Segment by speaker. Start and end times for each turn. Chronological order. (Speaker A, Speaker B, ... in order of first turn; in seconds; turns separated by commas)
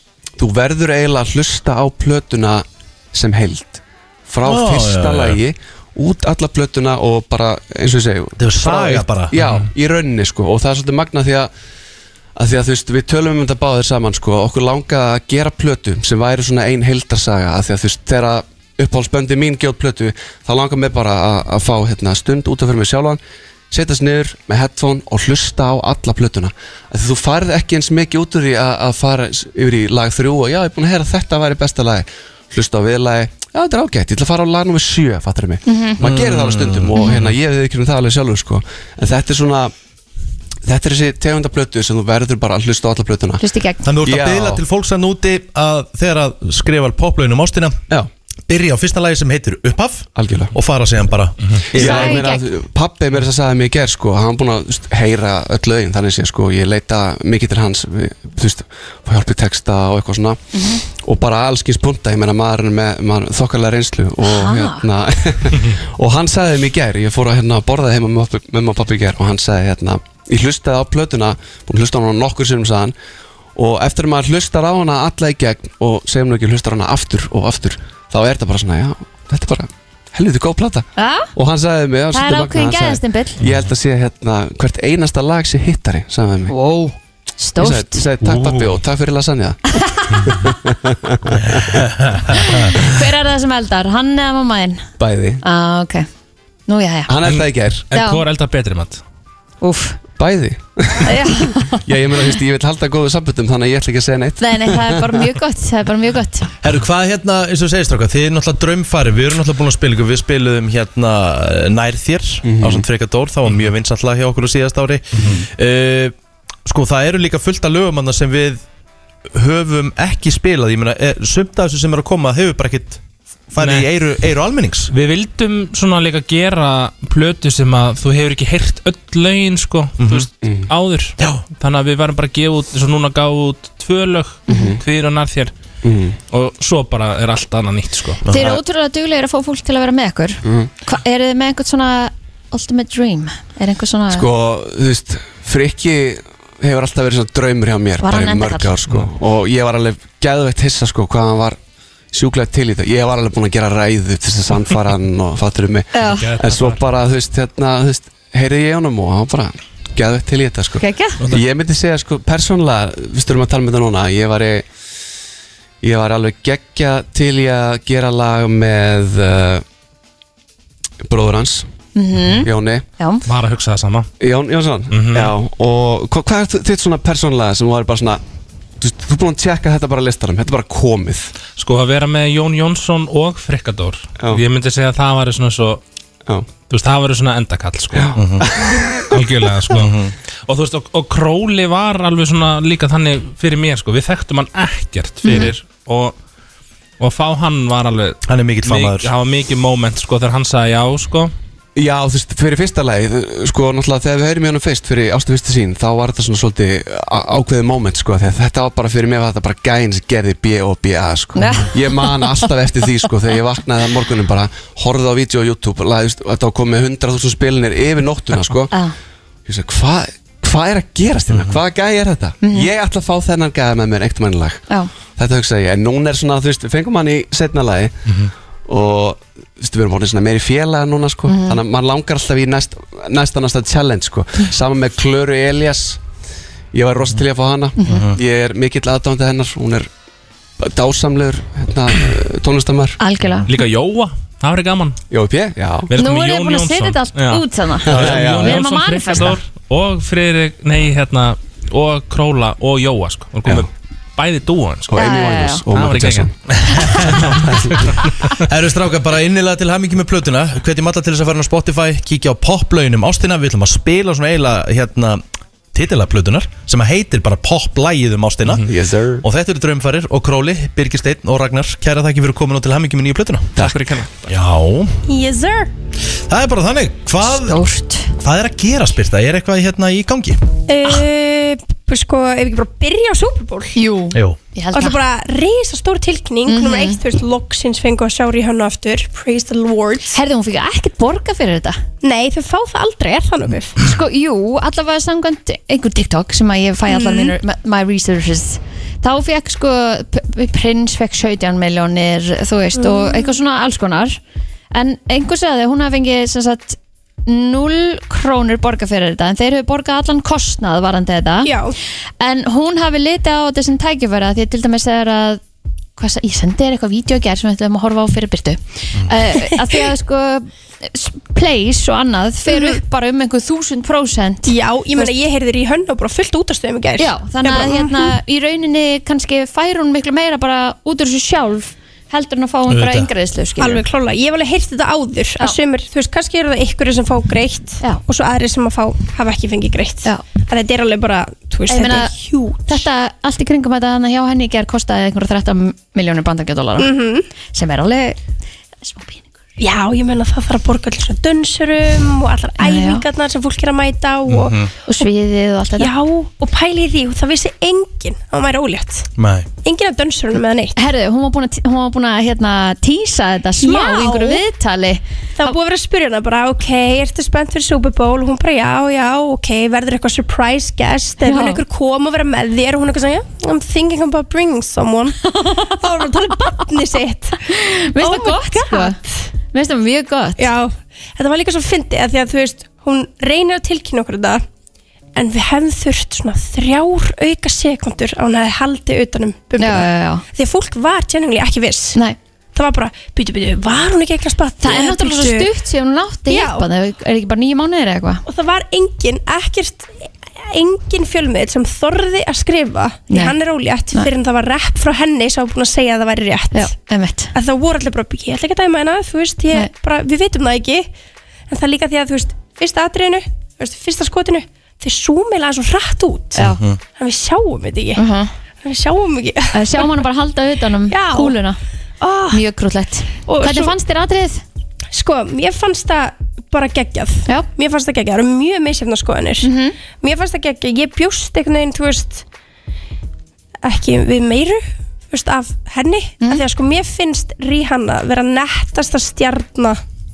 Speaker A: 0.4-11.5, Speaker B: 4.4-5.4, Speaker B: 8.4-9.4, Speaker A: 12.4-23.2, Speaker A: 23.7-39.7, Speaker C: 35.6-36.0, Speaker B: 36.0-37.3, Speaker C: 37.0-37.2, Speaker A: 40.6-43.4, Speaker C: 43.4-43.8, Speaker B: 43.8-47.8, Speaker A: 44.0-44.6, Speaker B: 48.5-52.2, Speaker A: 50.1-50.5, Speaker C: 51.7-52.4, Speaker A: 51.8-72.9, Speaker C: 60.5-60.8, Speaker C: 64.2-64.8, Speaker A: 73.5-86.5, Speaker C: 81.0-81.3, Speaker C: 82.1-83.4, Speaker C: 86.5-88.1, Speaker A: 87.6-89.7, Speaker D: 88.3-88.6, Speaker A: 90.3-91.8, Speaker B: 91.5-92.7, Speaker C: 92.3-94.8, Speaker A: 95.0-95.4, Speaker C: 95.4-96.1, Speaker C: 96.7-97.1, Speaker A: 97.1-97.9, Speaker D: 97.2-99.0, Speaker C: 97.9-98.2, Speaker C: 99.6-100.0, Speaker A: 100.2-105.1, Speaker C: 101.0-101.8, Speaker C: 104.4-106.5, Speaker B: 106.6-116.1, Speaker A: 112.4-112.8, Speaker D: 115.2-115.4, Speaker B: 116.7-118.6, Speaker B: 119.3-124.9, Speaker D: 123.6-123.9, Speaker D: 124.9-135.5, Speaker B: 130.0-130.3, Speaker A: 130.4-130.7, Speaker B: 131.2-131.4, Speaker C: 134.5-134.8, Speaker A: 134.5-134.8, Speaker A: 135.8-136.2, Speaker D: 136.3-138.2, Speaker B: 138.2-138.6, Speaker C: 138.3-144.3, Speaker A: 140.4-140.7, Speaker A: 144.1-151.6, Speaker C: 148.0-148.7, Speaker A: 152.1-164.6, Speaker C: 155.9-156.3, Speaker D: 156.1-156.8, Speaker C: 160.8-161.2, Speaker A: 165.8-169.6, Speaker A: 171.1-171.7, Speaker C: 171.9-173.2, Speaker A: 172.4-172.8, Speaker D: 173.2-174.1, Speaker A: 174.2-178.2, Speaker D: 174.9-175.3, Speaker A: 178.8-181.3, Speaker D: 181.6-185.8, Speaker D: 186.7-188.2, Speaker A: 187.9-189.1, Speaker B: 188.1-188.5, Speaker D: 189.1-196.2, Speaker B: 189.7-190.1, Speaker C: 195.2-195.5, Speaker D: 197.0-201.3, Speaker B: 198.2-199.1, Speaker A: 201.8-218.7, Speaker C: 211.3-212.2, Speaker A: 219.4-224.6, Speaker B: 221.3-221.6, Speaker C: 222.4-222.7, Speaker A: 225.2-228.0, Speaker A: 228.7-236.0, Speaker C: 231.3-231.6, Speaker A: 236.7-239.9, Speaker C: 237.8-238.1, Speaker B: 237.9-238.2, Speaker A: 240.6-243.0, Speaker C: 243.0-243.5, Speaker D: 243.4-245.0, Speaker A: 245.1-245.9, Speaker D: 245.9-255.0, Speaker C: 245.9-249.4, Speaker A: 247.9-248.5, Speaker A: 254.9-256.3, Speaker C: 254.9-255.6, Speaker D: 255.7-256.3, Speaker B: 256.5-265.2, Speaker D: 256.9-258.3, Speaker B: 265.7-268.7, Speaker A: 268.6-269.2, Speaker B: 269.2-273.7, Speaker A: 273.6-273.9, Speaker D: 273.6-274.3, Speaker B: 274.3-274.9, Speaker E: 275.1-275.7, Speaker B: 276.3-277.6, Speaker C: 277.2-278.1, Speaker B: 278.2-280.4, Speaker E: 280.7-283.8, Speaker C: 283.7-285.0, Speaker E: 284.7-290.2, Speaker C: 286.5-287.0, Speaker C: 290.1-291.8, Speaker E: 292.0-293.8, Speaker C: 293.8-304.2, Speaker E: 296.9-297.4, Speaker E: 302.7-303.4, Speaker C: 304.7-311.5, Speaker E: 311.4-311.8, Speaker C: 312.2-315.4, Speaker C: 315.9-325.1, Speaker E: 319.3-319.8, Speaker E: 322.5-322.8, Speaker E: 324.4-328.1, Speaker C: 327.0-333.8, Speaker B: 332.7-333.1, Speaker E: 333.6-342.9, Speaker C: 341.7-342.1, Speaker C: 342.6-346.9, Speaker E: 346.8-347.2, Speaker C: 347.5-348.2, Speaker C: 348.8-349.2, Speaker E: 349.6-354.6, Speaker C: 352.6-353.0, Speaker B: 354.3-354.7, Speaker C: 354.9-355.9, Speaker E: 355.8-359.1, Speaker B: 359.2-359.5, Speaker E: 359.6-360.8, Speaker C: 360.8-365.0, Speaker E: 363.6-364.4, Speaker E: 365.4-379.3, Speaker C: 371.2-371.6, Speaker C: 377.5-379.0, Speaker C: 379.5-380.5, Speaker E: 380.4-384.4, Speaker E: 385.1-392.0, Speaker C: 389.6-390.2, Speaker E: 392.5-395.5, Speaker C: 394.6-398.2, Speaker E: 396.3-396.7, Speaker E: 398.2-406.7, Speaker C: 403.1-403.3, Speaker C: 406.5-407.3, Speaker E: 407.3-410.9, Speaker E: 411.5-416.4, Speaker C: 416.4-416.6, Speaker B: 416.4-416.8, Speaker E: 416.9-418.0, Speaker C: 418.0-418.3, Speaker E: 418.6-420.0, Speaker C: 419.5-421.6, Speaker E: 420.9-421.4, Speaker E: 422.0-422.4, Speaker C: 422.3-424.4, Speaker E: 423.2-423.8, Speaker E: 424.9-432.2, Speaker C: 429.4-429.7, Speaker E: 433.6-439.8